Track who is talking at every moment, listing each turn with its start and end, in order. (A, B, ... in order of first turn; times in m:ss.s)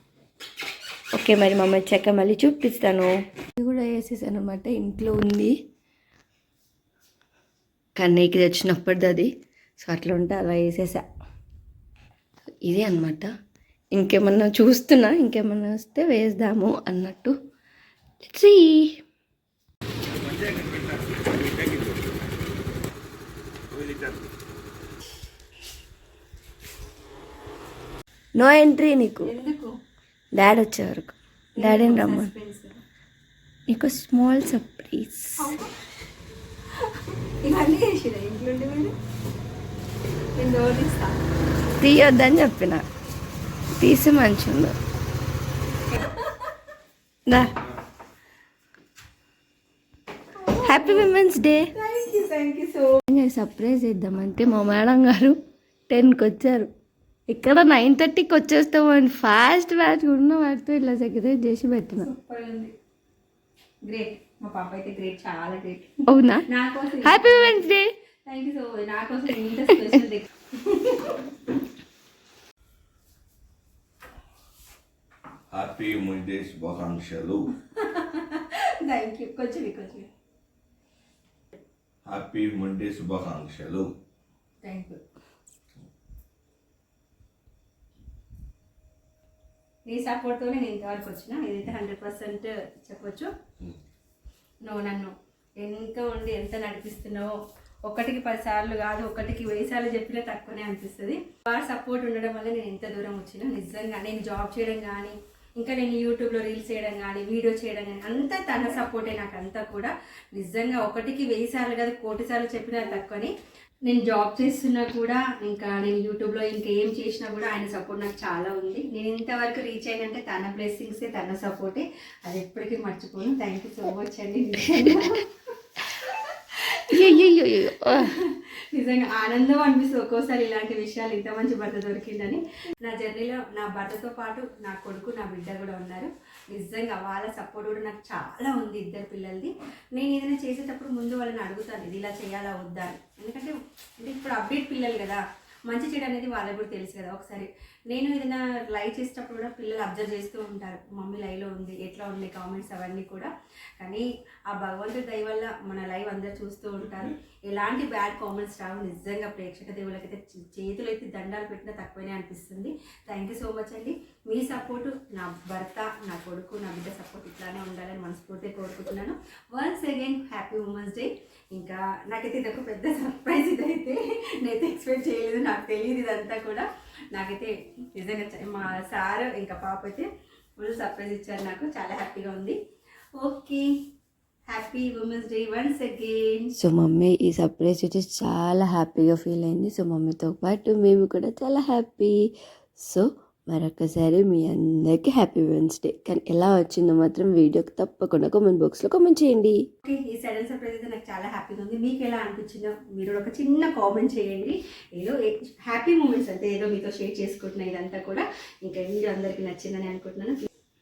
0:01.1-0:05.6 A
0:08.0-0:11.1 A
0:12.6-0:13.3 A
0:13.9-0:17.4 A
0:18.2-0:19.0 A
0:20.3-0:21.9 B
0:23.7-0:24.2 B
0:28.4-0:29.3 A
0:29.2-0:29.8 C
0:30.3-0:32.3 A
0:31.6-0:32.8 C
0:33.7-0:35.5 A
0:35.4-0:35.7 C
0:36.8-0:38.9 C
0:40.4-0:41.1 C
0:41.8-0:42.9 A
0:43.8-0:44.8 A
0:45.9-0:46.5 C
0:50.4-0:51.1 C
0:50.6-0:51.7 A
0:51.7-0:53.0 C
0:53.1-0:55.4 A
0:55.9-0:56.7 A
0:57.3-1:02.1 A
1:02.0-1:02.7 C
1:03.9-1:11.6 C
1:06.1-1:06.5 A
1:07.0-1:07.9 A
1:15.5-1:17.5 B
1:17.7-1:20.1 C
1:22.1-1:23.9 B
1:24.6-1:25.0 C
1:29.9-1:33.3 C
1:34.6-1:37.4 C
1:37.9-1:53.3 C
1:53.9-2:05.3 C
2:05.8-3:02.6 C
2:06.9-2:08.1 A
3:03.2-3:03.7 C
3:04.5-3:06.5 C
3:06.6-3:12.2 A
3:12.8-3:19.6 A
3:19.8-3:30.4 C